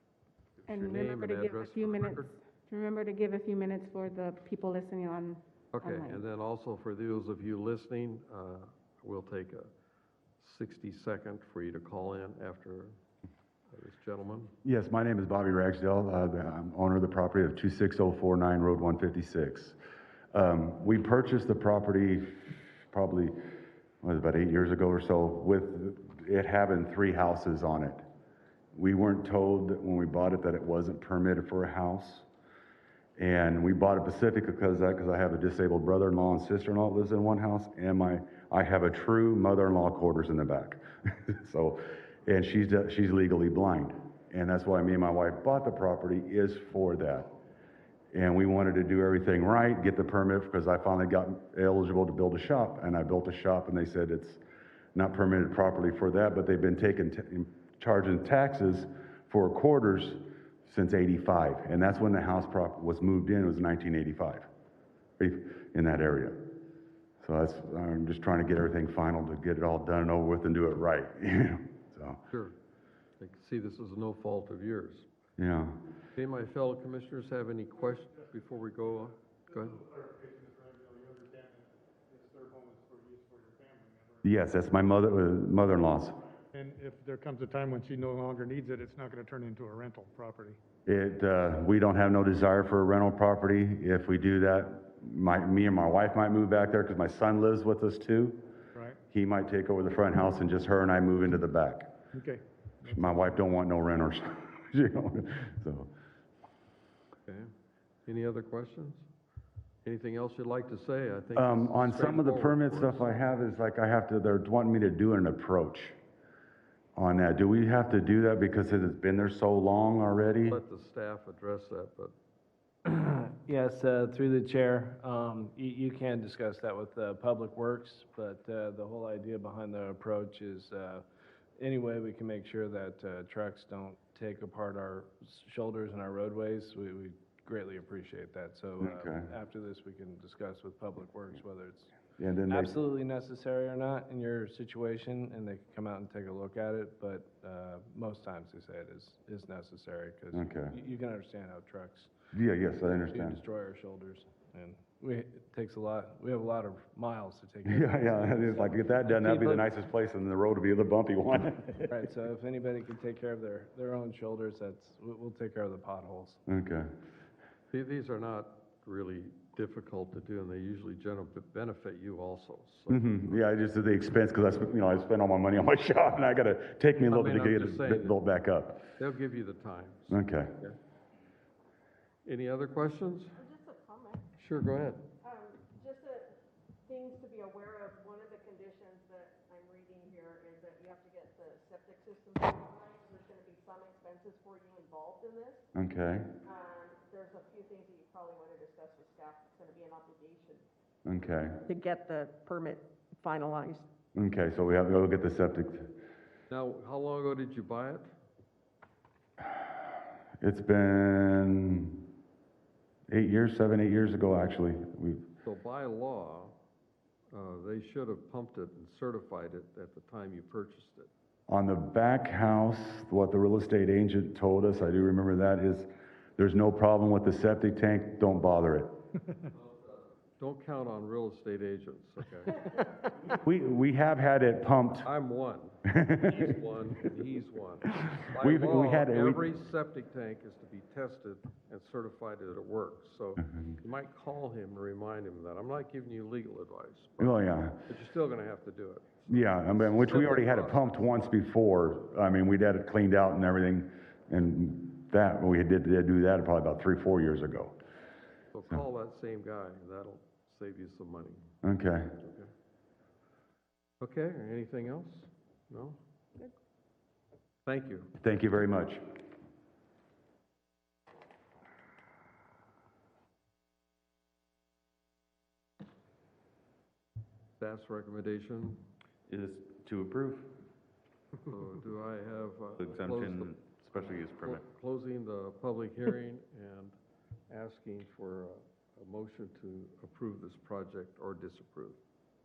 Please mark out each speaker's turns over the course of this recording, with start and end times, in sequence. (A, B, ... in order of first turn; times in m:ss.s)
0:00.6-0:02.3 A
0:00.7-0:06.2 B
0:05.7-0:09.7 A
0:10.4-0:13.0 A
0:13.7-0:14.5 A
0:14.6-0:19.8 C
0:20.3-0:23.4 C
0:24.0-0:28.0 C
0:28.7-0:32.2 C
0:33.2-0:47.3 C
0:48.1-0:54.4 C
0:54.9-1:04.4 C
1:05.2-1:06.5 C
1:07.2-1:12.2 C
1:13.2-1:15.1 A
1:15.4-1:15.8 C
1:16.2-1:19.8 A
1:19.7-1:24.2 D
1:24.2-1:26.2 C
1:26.5-1:30.6 D
1:30.8-1:38.5 C
1:39.1-1:41.9 C
1:42.2-1:43.0 D
1:42.9-1:45.9 C
1:47.2-1:47.5 A
1:48.0-1:49.1 A
1:49.8-1:53.1 A
1:51.3-1:56.0 C
1:57.0-2:00.6 C
2:00.5-2:02.1 A
2:02.8-2:11.0 E
2:11.6-2:21.9 E
2:18.8-2:19.3 C
2:22.2-2:22.8 C
2:22.5-2:32.1 E
2:30.3-2:30.7 C
2:32.3-2:33.4 C
2:33.0-2:39.7 E
2:37.6-2:41.9 C
2:41.9-2:46.4 E
2:46.5-2:46.9 C
2:47.7-2:53.6 A
2:52.9-2:58.9 C
2:57.0-2:58.2 A
2:59.0-3:00.2 A
3:00.1-3:00.6 C
3:02.2-3:03.4 A
3:03.4-3:04.3 F
3:04.4-3:05.1 A
3:05.2-3:15.7 F
3:15.7-3:16.3 C
3:16.4-3:20.6 F
3:21.0-3:21.6 C
3:21.7-3:23.9 F
3:24.1-3:25.9 C
3:26.5-3:28.1 A
3:30.4-3:32.0 C
3:33.1-3:35.3 C
3:35.4-3:36.6 A
3:37.3-3:41.1 A
3:41.5-3:48.9 C
3:49.5-3:52.6 A
3:53.3-3:55.0 C
3:55.0-4:11.0 A
3:55.9-3:56.5 C
3:58.0-3:59.4 C
4:07.2-4:07.8 C
4:09.3-4:17.7 C
4:18.5-4:21.5 A
4:21.6-4:22.2 C
4:22.2-4:22.5 A
4:24.0-4:26.0 A
4:27.6-4:28.1 A
4:28.2-4:29.0 C
4:37.6-4:38.8 A
4:39.3-4:40.5 G
4:41.4-4:43.6 A
4:42.8-4:44.6 G
4:44.1-4:47.0 A
4:47.5-4:52.0 A